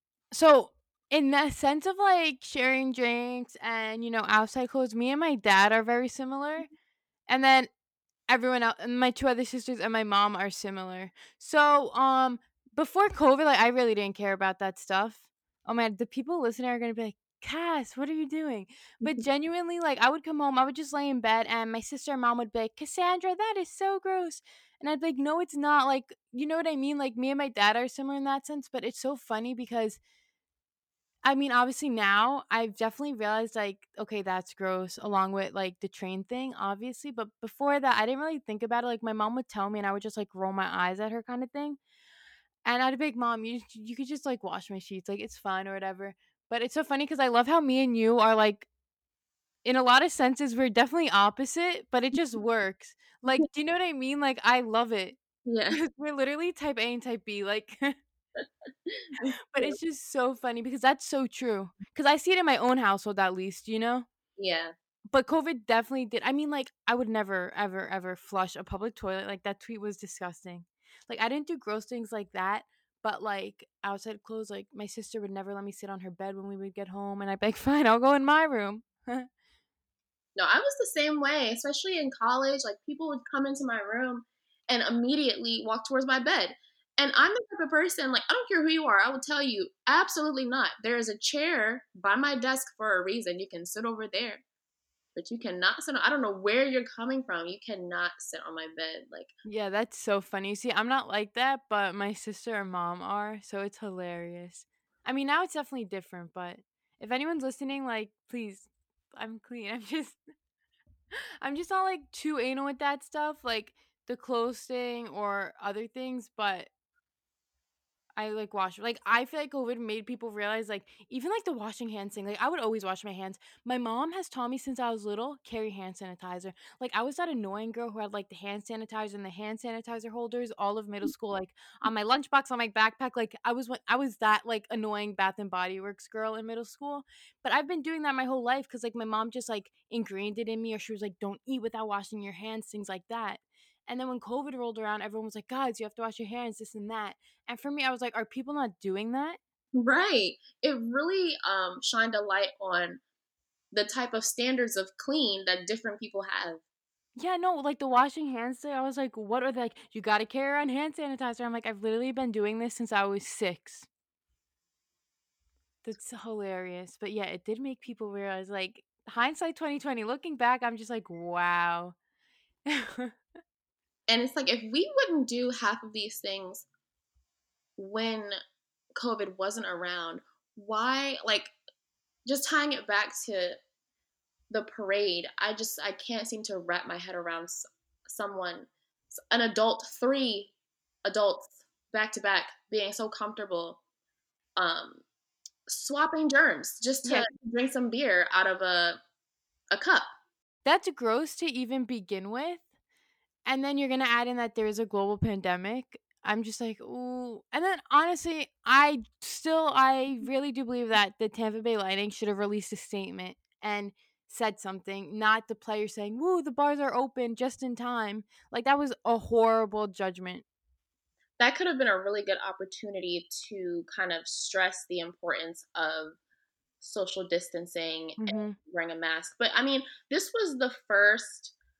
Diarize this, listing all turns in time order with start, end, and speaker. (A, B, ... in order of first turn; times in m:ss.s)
0:00.3-0:06.7 A
0:07.3-0:07.7 A
0:08.3-0:30.0 A
0:31.2-0:41.8 A
0:42.6-0:48.7 A
0:49.6-0:55.2 A
0:55.4-0:55.8 B
0:55.7-0:57.9 A
0:58.8-0:59.8 B
0:59.5-1:04.0 A
1:04.4-1:04.7 B
1:05.1-1:19.3 A
1:20.4-1:34.4 B
1:35.1-1:39.3 B
1:39.4-1:50.2 A
1:51.4-1:56.7 A
1:58.2-2:29.4 A
2:29.7-2:33.0 B
2:33.7-2:36.6 B
2:37.2-2:43.9 A
2:45.8-2:52.0 A
2:52.7-2:53.1 A
2:54.1-2:56.7 B
2:57.8-2:58.4 B
2:59.0-3:01.5 B
3:02.2-3:03.6 B
3:04.5-3:10.5 B
3:11.0-3:13.8 B
3:14.6-3:15.0 B
3:15.7-3:19.0 B
3:19.7-3:20.1 B
3:20.6-3:22.6 A
3:23.4-3:40.4 A
3:41.4-3:46.2 B
3:46.8-3:51.5 B
3:48.2-3:48.6 A